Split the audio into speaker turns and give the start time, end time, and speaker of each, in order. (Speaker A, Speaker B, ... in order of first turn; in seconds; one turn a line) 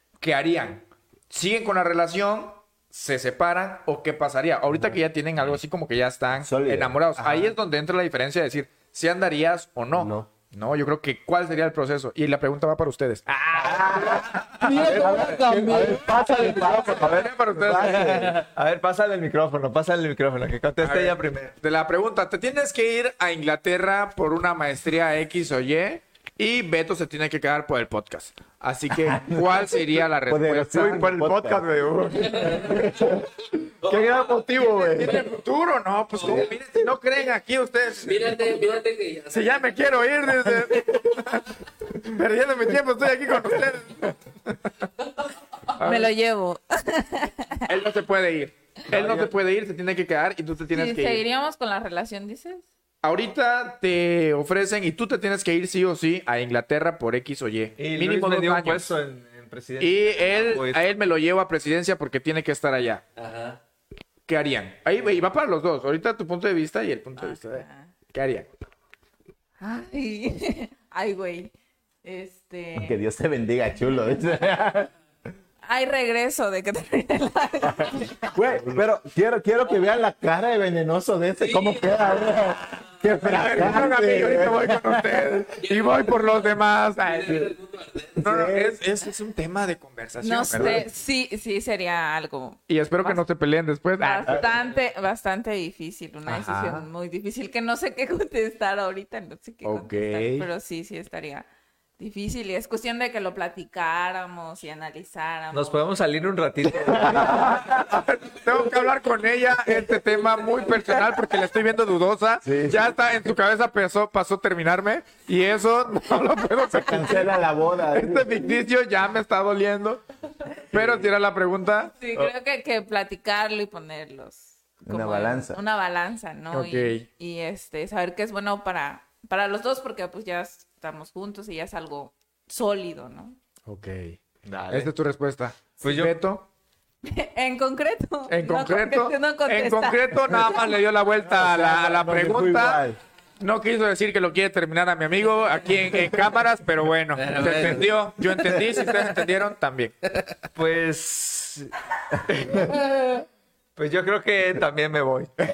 Speaker A: 0.2-15.1
Speaker B: 6.4-7.0
Speaker C: 9.9-10.3
Speaker B: 13.6-18.4
Speaker C: 14.6-16.9
Speaker A: 16.4-18.4
Speaker D: 16.7-21.5
Speaker A: 20.8-31.3
Speaker B: 29.0-29.7
Speaker B: 30.3-31.6
Speaker D: 30.7-32.8
Speaker A: 32.1-32.8
Speaker C: 32.3-33.1
Speaker B: 32.5-33.2
Speaker D: 33.8-35.2
Speaker A: 33.9-38.5
Speaker C: 38.0-39.7
Speaker A: 39.3-44.9
Speaker A: 45.8-46.1
Speaker E: 45.8-47.7
Speaker A: 47.7-51.2
Speaker D: 48.9-49.3
Speaker E: 50.7-52.6
Speaker A: 53.0-58.9
Speaker D: 57.8-60.8
Speaker A: 59.8-63.0
Speaker C: 63.2-63.6
Speaker A: 64.3-68.5
Speaker E: 67.2-67.9
Speaker E: 69.6-73.0
Speaker B: 72.8-74.9
Speaker E: 75.6-78.3
Speaker B: 77.7-85.3
Speaker C: 81.5-82.0
Speaker A: 83.2-87.6
Speaker C: 85.6-86.2
Speaker C: 87.0-88.2
Speaker A: 88.2-90.8
Speaker B: 88.2-88.8
Speaker E: 90.2-93.2
Speaker B: 90.5-90.8
Speaker A: 92.7-94.5
Speaker E: 94.0-101.5
Speaker A: 96.3-96.9
Speaker A: 99.6-100.5
Speaker E: 102.0-105.8
Speaker D: 105.5-107.5
Speaker B: 107.0-107.5
Speaker A: 107.1-117.3
Speaker B: 112.4-112.8
Speaker B: 116.7-118.3
Speaker A: 117.9-120.0
Speaker A: 120.7-121.9
Speaker E: 122.0-133.4
Speaker B: 124.9-125.6
Speaker A: 126.5-127.1
Speaker A: 133.7-134.2
Speaker D: 134.4-134.9
Speaker A: 134.7-136.5
Speaker D: 135.8-136.1
Speaker E: 137.0-140.6
Speaker A: 138.3-142.8
Speaker B: 141.2-143.0
Speaker A: 143.4-149.9
Speaker C: 147.2-147.9
Speaker D: 150.6-151.7
Speaker D: 152.3-152.8
Speaker C: 152.7-153.2
Speaker D: 153.8-155.3